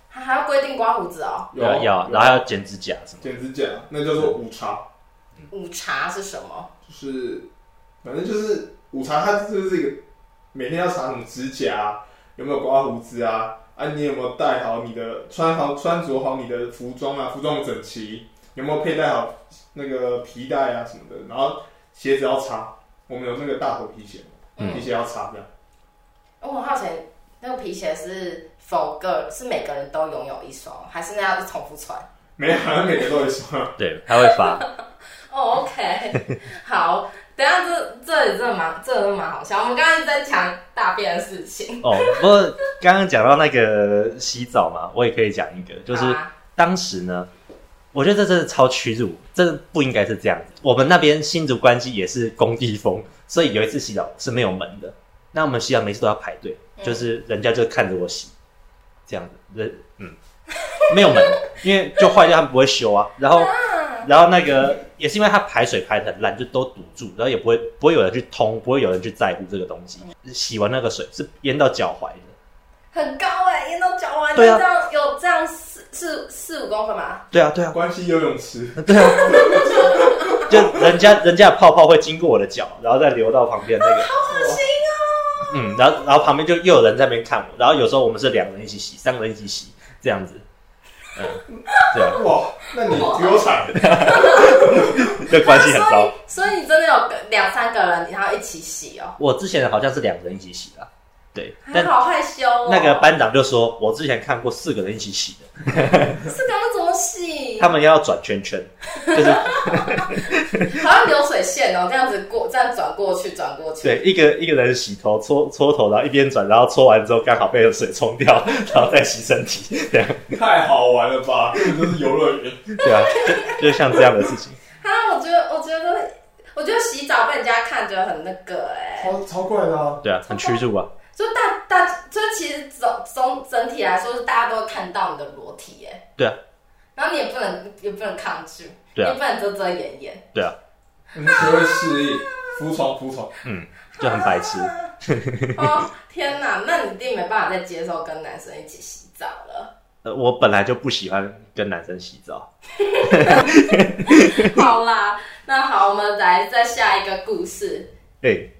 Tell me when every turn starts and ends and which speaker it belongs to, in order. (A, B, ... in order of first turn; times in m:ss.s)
0:00.1-0:01.5 A
0:01.5-0:02.5 B
0:01.6-0:03.3 C
0:03.2-0:04.8 B
0:05.5-0:06.7 A
0:06.8-0:07.5 B
0:08.0-0:10.0 B
0:10.5-0:25.5 B
0:24.6-0:24.8 A
0:26.4-0:32.1 A
0:32.4-0:33.8 B
0:33.8-0:34.6 C
0:34.2-0:34.6 A
0:35.3-0:42.2 A
0:41.8-0:47.3 C
0:45.9-0:46.3 A
0:47.9-0:58.3 C
0:56.8-0:57.0 A
0:59.1-1:00.2 C
1:00.7-1:01.2 A
1:00.9-1:12.3 C
1:03.3-1:04.1 A
1:12.9-1:17.2 A
1:14.4-1:14.6 C
1:17.3-1:17.8 C
1:17.7-1:21.0 B
1:18.8-1:24.1 C
1:19.3-1:20.4 A
1:23.8-1:25.8 A
1:24.3-1:24.6 B
1:25.5-1:30.4 C
1:31.1-1:32.2 C
1:31.7-1:32.0 A
1:32.1-1:35.0 B
1:32.8-1:39.2 A
1:33.7-1:36.1 C
1:39.2-1:41.9 C
1:41.6-1:43.1 A
1:42.6-1:46.3 C
1:46.2-1:47.7 A
1:47.6-1:50.8 C
1:49.0-1:50.1 A
1:50.6-1:54.0 A
1:53.8-2:00.4 C
2:00.3-2:02.8 B
2:02.8-2:04.6 C
2:02.8-2:03.6 A
2:04.8-2:09.1 A
2:09.0-2:10.0 B
2:10.0-2:10.9 C
2:10.3-2:10.6 A
2:11.1-2:16.0 A
2:16.9-2:20.2 A
2:21.1-2:23.3 B
2:21.3-2:22.5 A
2:23.4-2:25.7 C
2:24.0-2:24.9 A
2:25.5-2:29.7 A
2:30.0-2:32.5 C
2:32.8-2:37.9 A
2:33.0-2:34.6 C
2:38.2-2:38.5 C